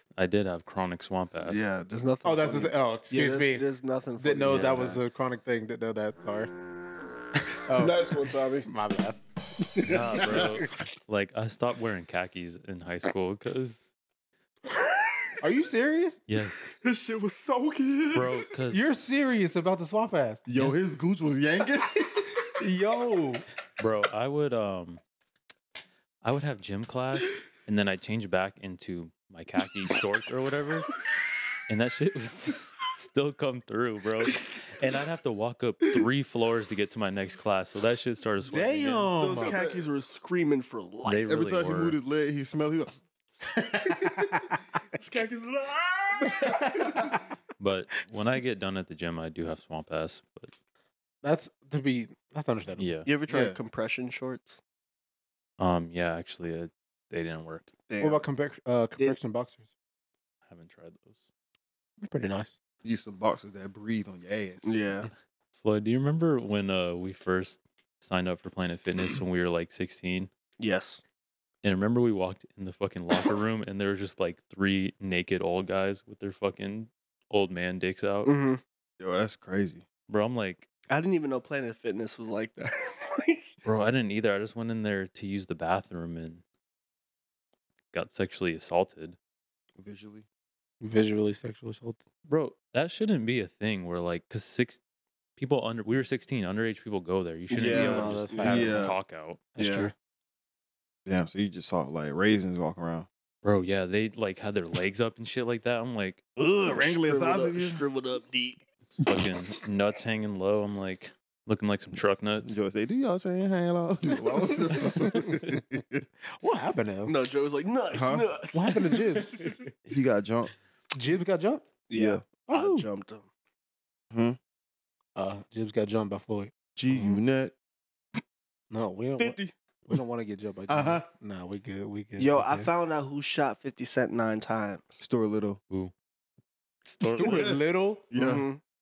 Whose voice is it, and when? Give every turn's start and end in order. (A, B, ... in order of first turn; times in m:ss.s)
0:00.2-0:01.7 A
0:01.4-0:05.0 B
0:02.2-0:03.6 C
0:04.2-0:06.5 C
0:04.5-0:04.8 A
0:07.6-0:08.0 C
0:07.7-0:08.7 B
0:08.6-0:09.2 C
0:09.6-0:10.6 D
0:09.8-0:13.9 A
0:10.3-0:10.8 C
0:15.4-0:16.2 C
0:16.3-0:16.7 A
0:16.8-0:18.3 B
0:18.1-0:18.8 A
0:18.7-0:20.4 C
0:20.5-0:22.4 D
0:20.5-0:20.8 A
0:22.6-0:23.4 C
0:23.8-0:25.0 A
0:26.2-0:30.9 A
0:31.7-0:39.1 A
0:38.4-0:39.6 C
0:39.2-0:41.3 B
0:39.4-0:39.8 D
0:41.0-0:42.0 A
0:41.2-0:42.9 D
0:43.5-0:44.5 C
0:43.9-0:44.3 D
0:44.9-0:46.7 B
0:46.3-0:47.2 C
0:46.8-0:47.2 D
0:47.6-0:50.5 A
0:51.2-0:53.0 C
0:52.8-0:53.1 A
0:53.0-0:54.6 B
0:53.3-0:53.6 D
0:55.6-0:57.7 A
0:57.9-0:58.2 B
0:58.0-0:59.6 C
1:00.5-1:01.2 A
1:02.0-1:02.5 C
1:02.8-1:04.8 D
1:04.6-1:05.1 B
1:05.5-1:10.3 A
1:10.6-1:11.0 B
1:11.6-1:18.3 A
1:18.2-1:18.6 B
1:19.0-1:19.8 D
1:20.1-1:20.7 A
1:20.9-1:23.5 B
1:23.6-1:26.4 A
1:27.9-1:29.2 A
1:29.8-1:30.2 D
1:30.8-1:32.0 C
1:32.2-1:34.8 A
1:35.4-1:39.5 A
1:37.5-1:38.8 B
1:37.6-1:38.9 C
1:38.4-1:39.0 D
1:39.5-1:39.9 C
1:39.6-1:39.9 B
1:41.0-1:43.1 D
1:43.4-1:46.2 A
1:46.4-1:48.6 B
1:46.6-1:47.8 D
1:49.0-1:52.6 A
1:52.4-1:56.0 D
1:54.3-1:55.4 C
1:56.3-1:57.1 C
1:57.0-1:59.5 B
1:57.9-1:58.3 D
1:58.5-1:59.6 C
1:59.8-2:00.5 D
2:00.9-2:01.7 C
2:01.9-2:03.3 B
2:01.9-2:02.2 D
2:02.5-2:02.9 C
2:04.1-2:04.4 D
2:05.2-2:06.5 C
2:06.8-2:07.5 D
2:08.7-2:12.6 C
2:09.2-2:09.5 D
2:10.7-2:11.0 D
2:12.2-2:14.8 B
2:15.0-2:15.6 D
2:16.8-2:17.6 A
2:17.1-2:18.1 C
2:17.2-2:17.6 D
2:18.1-2:18.4 D
2:18.1-2:18.6 B